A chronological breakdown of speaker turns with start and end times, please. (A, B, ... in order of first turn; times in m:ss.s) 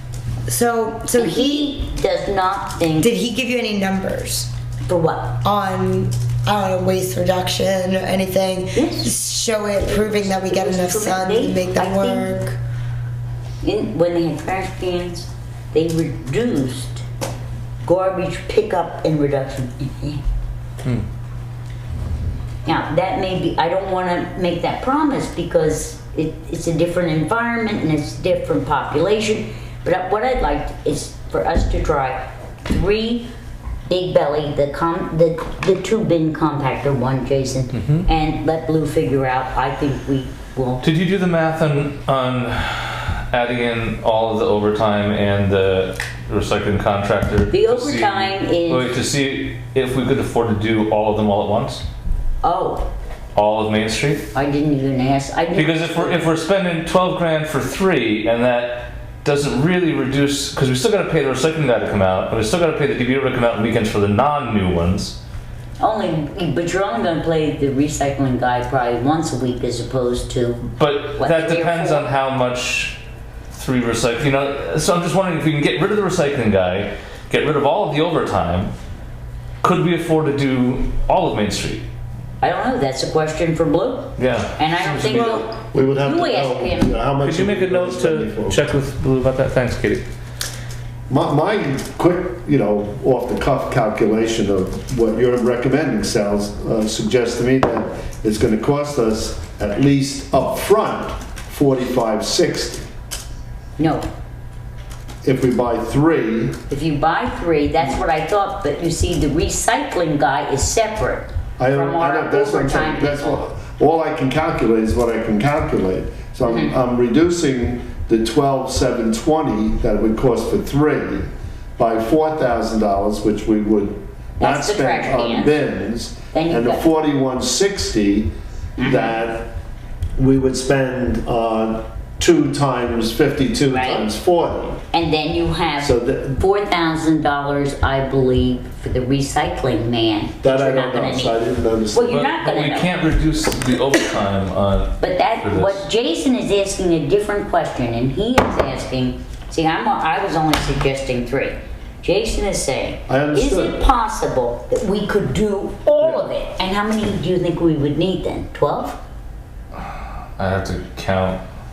0:00.5-0:01.7 A
0:01.1-0:03.1 B
0:03.0-0:04.5 A
0:04.9-0:05.4 B
0:05.4-0:12.6 A
0:08.7-0:09.1 B
0:09.8-0:12.3 B
0:13.6-0:17.0 B
0:17.8-0:20.2 B
0:22.6-0:33.3 B
0:33.9-0:40.8 B
0:37.7-0:38.0 C
0:40.8-0:51.8 C
0:47.5-0:49.0 B
0:52.4-0:52.9 B
0:53.3-0:54.3 C
0:54.3-0:56.2 B
0:55.6-1:05.2 C
1:05.8-1:12.1 B
1:10.8-1:13.0 C
1:13.5-1:18.7 C
1:19.6-1:21.8 C
1:22.4-1:27.0 B
1:24.2-1:25.5 C
1:25.7-1:28.6 D
1:27.2-1:30.0 C
1:31.1-1:42.9 D
1:43.8-1:44.1 B
1:45.2-1:46.6 D
1:46.7-1:53.4 B
1:51.6-2:09.5 D
1:56.4-1:56.7 B
2:04.4-2:05.7 B
2:06.3-2:06.9 B
2:08.8-2:09.2 B
2:10.2-2:14.8 D
2:13.7-2:14.1 B
2:14.9-2:21.4 B
2:15.8-2:16.4 D
2:20.4-2:22.2 D
2:21.9-2:23.0 B
2:22.1-2:25.8 C
2:25.0-2:39.0 B
2:33.1-2:33.8 D
2:36.0-2:36.3 D
2:40.4-2:41.4 C